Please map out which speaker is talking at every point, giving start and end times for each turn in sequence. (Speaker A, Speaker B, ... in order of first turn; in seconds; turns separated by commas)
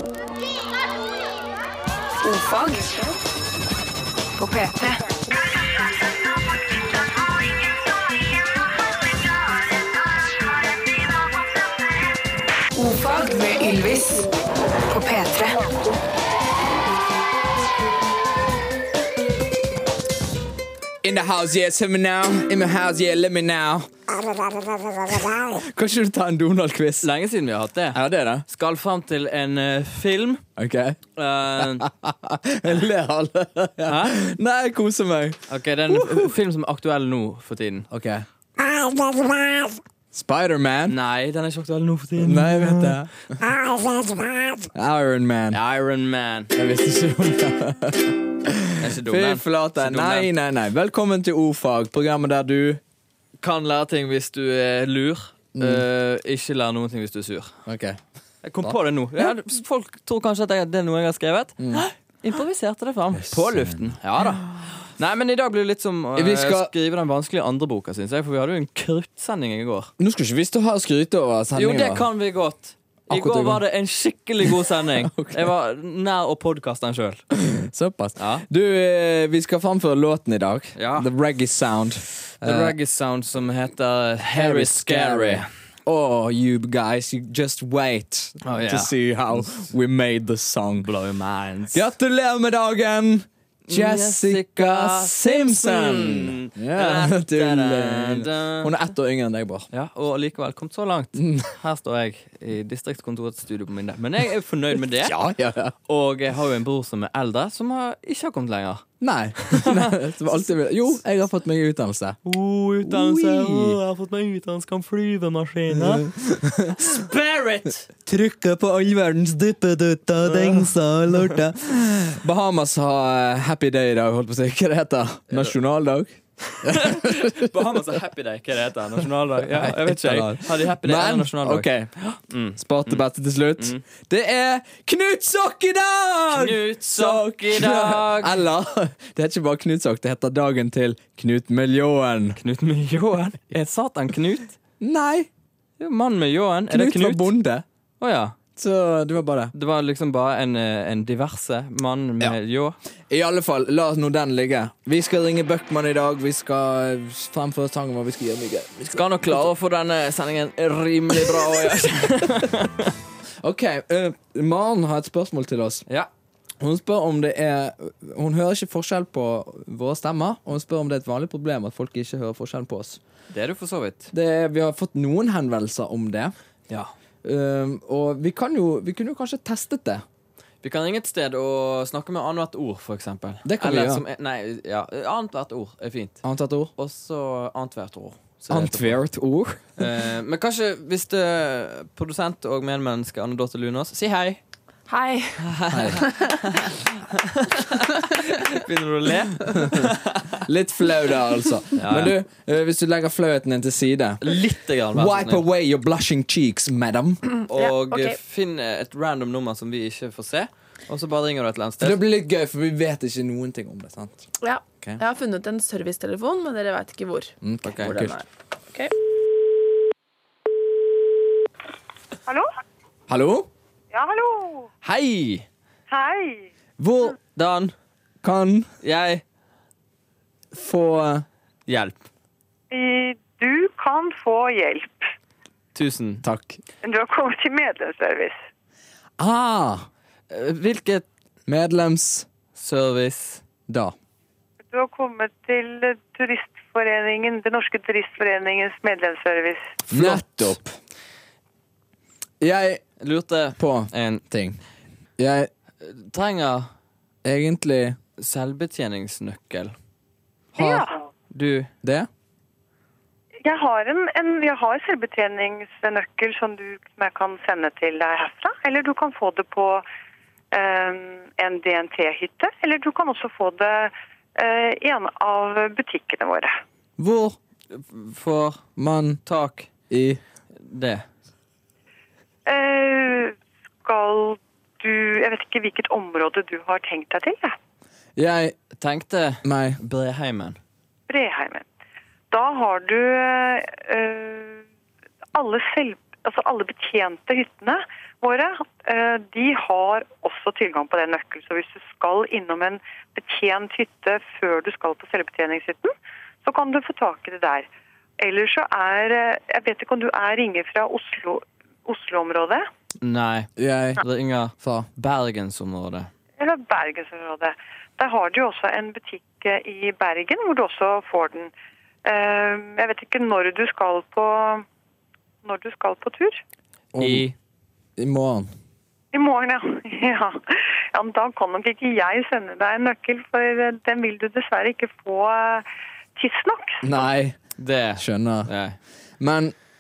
Speaker A: 2.2-3.1, Speaker A: 4.4-5.0, Speaker A: 12.8-14.3, Speaker A: 14.9-15.6, Speaker B: 21.0-24.4, Speaker B: 25.3-27.1, Speaker C: 27.0-30.4, Speaker B: 27.9-28.4, Speaker B: 30.6-31.0, Speaker C: 31.2-31.9, Speaker B: 31.6-36.3, Speaker C: 33.9-34.2, Speaker C: 35.5-37.9, Speaker B: 37.9-41.0, Speaker C: 40.9-43.0, Speaker B: 42.2-43.4, Speaker B: 44.7-45.6, Speaker C: 45.5-46.5, Speaker B: 46.5-52.8, Speaker C: 48.8-50.3, Speaker C: 53.4-57.6, Speaker B: 55.5-55.8, Speaker B: 57.7-58.0, Speaker C: 58.4-69.9, Speaker B: 58.6-59.3, Speaker B: 61.6-61.9, Speaker B: 63.2-64.3, Speaker B: 66.2-66.7, Speaker B: 70.0-72.1, Speaker C: 71.5-77.2, Speaker B: 73.1-73.6, Speaker B: 74.4-75.5, Speaker B: 77.3-82.8, Speaker C: 78.2-78.5, Speaker C: 80.8-81.1, Speaker C: 82.4-85.5, Speaker B: 84.2-90.9, Speaker C: 88.4-88.9, Speaker C: 90.8-91.8, Speaker B: 91.7-99.7, Speaker C: 93.7-98.8, Speaker C: 99.7-105.2, Speaker B: 101.2-101.5, Speaker B: 105.0-105.7, Speaker C: 105.9-108.9, Speaker B: 109.0-112.2, Speaker C: 109.4-109.9, Speaker C: 112.2-117.9, Speaker B: 112.8-113.8, Speaker B: 115.7-117.0, Speaker B: 117.9-127.8, Speaker C: 120.2-121.4, Speaker C: 125.3-125.5, Speaker C: 126.5-133.1, Speaker B: 129.4-131.9, Speaker B: 132.6-142.4, Speaker C: 133.6-133.8, Speaker C: 136.3-138.4, Speaker C: 142.4-144.6, Speaker B: 144.8-145.3, Speaker C: 145.8-147.3, Speaker B: 146.7-147.7, Speaker C: 148.0-148.4, Speaker B: 148.6-149.5, Speaker C: 149.5-152.8, Speaker B: 153.1-159.5, Speaker C: 158.9-162.9, Speaker B: 161.2-161.7, Speaker B: 163.4-165.8, Speaker B: 166.6-173.0, Speaker C: 173.3-174.1, Speaker B: 174.1-176.3, Speaker B: 177.2-180.1, Speaker C: 180.6-186.2, Speaker B: 183.4-184.0, Speaker B: 186.2-186.7, Speaker C: 186.8-189.0, Speaker B: 188.5-189.8, Speaker C: 189.8-194.4, Speaker A: 194.9-196.3, Speaker C: 195.4-200.4, Speaker B: 195.7-196.0, Speaker B: 199.6-199.9, Speaker B: 200.4-204.4, Speaker C: 201.8-202.2, Speaker C: 204.2-205.4, Speaker B: 204.9-207.2, Speaker C: 207.5-212.0, Speaker A: 207.5-208.2, Speaker B: 211.8-214.3, Speaker A: 214.4-218.2, Speaker B: 217.4-218.2, Speaker C: 217.6-218.2, Speaker B: 223.1-223.5, Speaker D: 223.9-224.7, Speaker C: 224.8-225.5, Speaker D: 225.9-226.5, Speaker B: 226.8-227.2, Speaker C: 227.3-227.7, Speaker B: 228.2-228.7, Speaker C: 228.8-229.2, Speaker B: 230.5-231.3, Speaker C: 231.7-232.1, Speaker D: 232.7-235.1, Speaker C: 235.7-236.2, Speaker B: 236.2-236.6, Speaker D: 236.8-238.4, Speaker B: 239.2-239.9, Speaker C: 240.3-241.1, Speaker B: 241.5-242.3, Speaker C: 242.6-243.4, Speaker B: 243.7-243.9, Speaker D: 244.7-249.8, Speaker B: 249.9-250.8, Speaker C: 249.9-250.6, Speaker B: 252.4-252.8, Speaker C: 253.0-254.2, Speaker B: 253.6-254.6, Speaker B: 255.2-255.5, Speaker C: 255.8-256.7, Speaker B: 257.2-258.0, Speaker C: 258.2-259.8, Speaker B: 260.6-260.9, Speaker D: 260.6-261.0, Speaker C: 261.3-261.7, Speaker B: 261.8-262.1, Speaker D: 263.4-269.9, Speaker D: 270.5-276.6, Speaker B: 277.0-277.4, Speaker C: 277.7-278.7, Speaker B: 278.8-279.2, Speaker C: 279.2-279.7, Speaker B: 279.9-280.2, Speaker C: 280.6-281.1, Speaker D: 282.5-287.6, Speaker B: 288.2-288.6, Speaker C: 288.8-290.6, Speaker B: 289.4-289.8, Speaker D: 291.1-291.6, Speaker D: 292.3-294.6, Speaker D: 295.3-307.7, Speaker D: 308.2-312.7, Speaker C: 313.0-316.1, Speaker B: 313.6-314.0, Speaker B: 314.6-314.9, Speaker D: 316.4-321.5, Speaker D: 322.1-324.6, Speaker D: 325.4-326.4, Speaker B: 326.9-327.3, Speaker C: 327.0-327.4, Speaker B: 328.0-328.5, Speaker D: 329.1-336.8, Speaker B: 336.8-337.4, Speaker C: 337.6-338.8, Speaker B: 338.0-338.5, Speaker B: 339.2-339.6